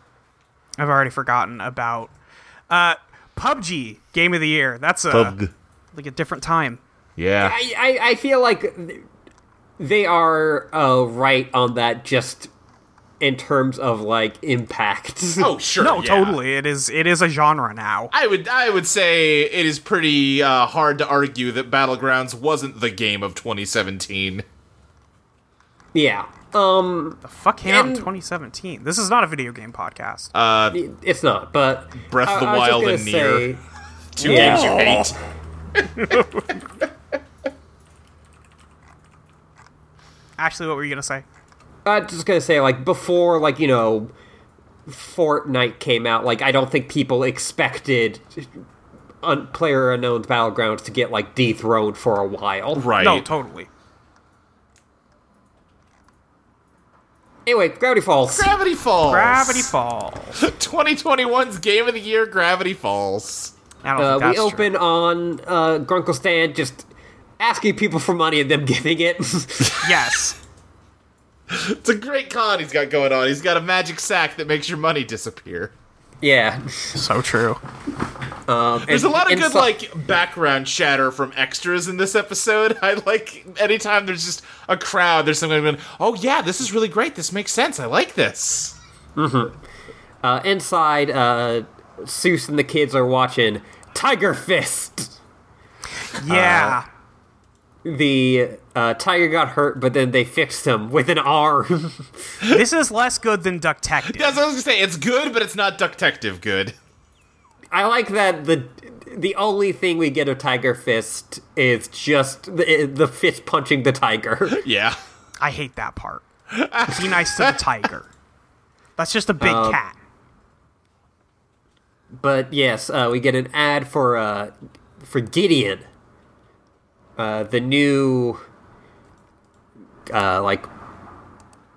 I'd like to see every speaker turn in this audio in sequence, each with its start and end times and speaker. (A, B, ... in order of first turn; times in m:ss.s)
0:00.8-0:02.1 A
0:02.7-0:05.3 A
0:05.1-0:05.5 B
0:05.9-0:06.8 A
0:07.2-0:07.6 B
0:07.4-0:09.0 C
0:09.8-0:12.5 C
0:13.2-0:15.5 C
0:15.4-0:16.4 B
0:15.8-0:18.1 A
0:18.1-0:24.4 B
0:25.9-0:28.1 C
0:27.2-0:30.3 A
0:30.3-0:30.8 B
0:30.7-0:33.6 C
0:32.0-0:33.5 B
0:34.2-0:35.2 B
0:34.2-0:35.0 A
0:34.2-0:35.1 C
0:35.8-0:36.2 B
0:40.4-0:41.2 A
0:41.8-0:44.1 C
0:44.8-0:48.5 C
0:49.2-0:52.9 C
0:52.7-0:53.2 B
0:53.0-0:53.7 A
0:57.4-0:58.5 C
0:58.3-0:59.7 B
0:59.1-1:00.4 A
1:00.4-1:03.5 B
1:03.8-1:04.7 A
1:04.0-1:06.9 C
1:07.4-1:09.8 C
1:09.8-1:10.4 A
1:11.5-1:15.7 B
1:16.2-1:17.0 C
1:16.9-1:17.6 A
1:18.5-1:19.7 C
1:18.9-1:28.8 B
1:29.2-1:29.6 C
1:30.2-1:35.2 C
1:36.1-1:36.8 A
1:36.2-1:36.8 C
1:37.8-1:42.3 C
1:42.5-1:44.4 A
1:44.0-1:46.7 B
1:47.7-1:54.6 C
1:54.5-1:55.0 B
1:55.4-1:56.2 A
1:56.5-1:57.6 B
1:56.9-1:58.1 A
1:59.0-1:59.9 A
1:59.4-1:59.8 C
2:02.2-2:05.9 C
2:07.2-2:08.4 C
2:10.1-2:10.7 C